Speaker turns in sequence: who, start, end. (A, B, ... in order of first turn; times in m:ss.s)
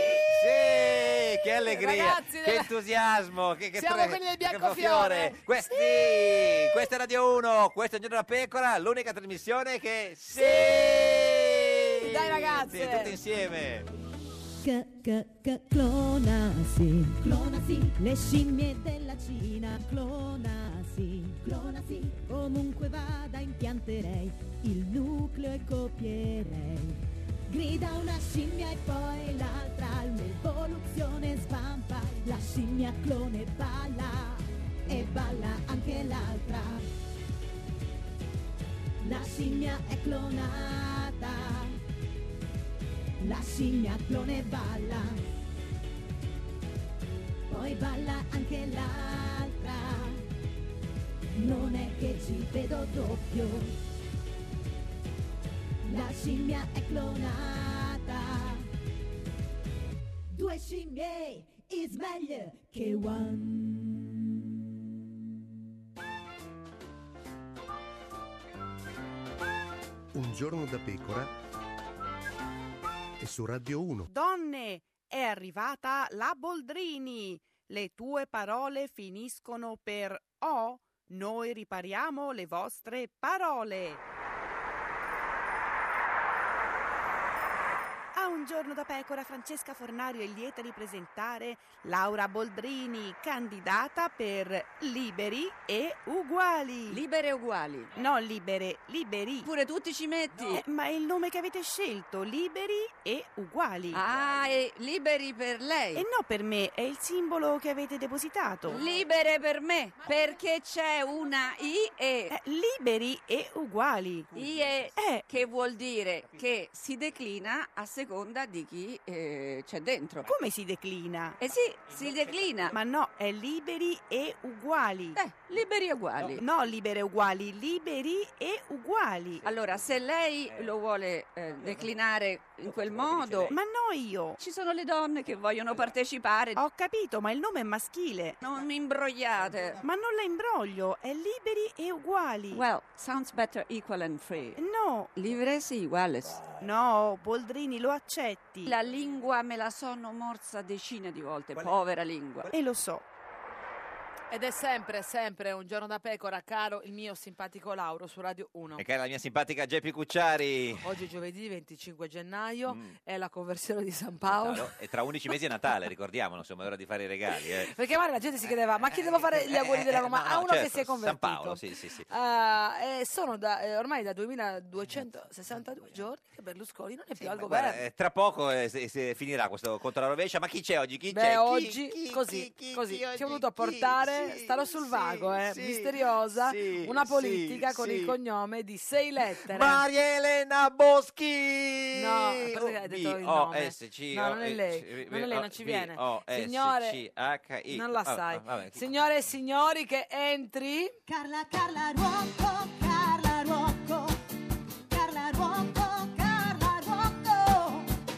0:00.2-0:13.9 A
0:01.7-0:02.7 B
0:03.8-0:06.7 B
0:10.4-0:11.3 B
0:12.0-0:13.1 B
0:14.6-0:36.8 C
0:39.0-0:41.8 C
0:43.2-0:45.2 C
0:47.5-0:50.2 C
0:51.4-0:53.7 C
0:55.8-0:58.7 C
1:00.3-1:04.2 C
1:10.1-1:11.3 D
1:13.2-1:14.1 D
1:14.1-1:24.0 E
1:28.1-1:37.0 E
1:36.9-1:37.9 F
1:37.9-1:39.5 E
1:39.4-1:40.6 F
1:40.5-1:44.0 E
1:43.9-1:46.1 F
1:44.0-1:44.6 A
1:46.0-1:48.8 E
1:48.6-1:52.3 F
1:52.3-1:54.4 E
1:54.3-2:00.3 F
1:54.9-1:55.3 E
2:00.2-2:01.4 E
2:01.4-2:02.7 F
2:02.7-2:05.2 E
2:05.2-2:06.4 F
2:06.4-2:09.5 E
2:09.4-2:10.7 A
2:09.4-2:13.5 F
2:11.6-2:11.9 A
2:12.6-2:13.6 A
2:13.5-2:14.4 E
2:14.4-2:16.6 F
2:16.6-2:18.4 E
2:18.4-2:19.8 F
2:19.8-2:22.6 E
2:22.5-2:24.6 F
2:24.6-2:25.2 E
2:25.1-2:26.5 F
2:26.5-2:28.7 E
2:28.6-2:32.5 F
2:32.5-2:33.0 E
2:34.3-2:38.8 B
2:38.8-2:40.9 A
2:40.8-2:44.7 B
2:42.7-2:43.0 A
2:44.2-2:47.7 A
2:47.4-2:57.8 B
2:48.4-2:52.1 A
2:57.2-3:08.2 A
3:01.1-3:09.8 B
3:09.4-3:18.9 A
3:11.9-3:17.0 B
3:17.7-3:21.0 B
3:21.1-3:24.2 C
3:24.9-3:27.9 C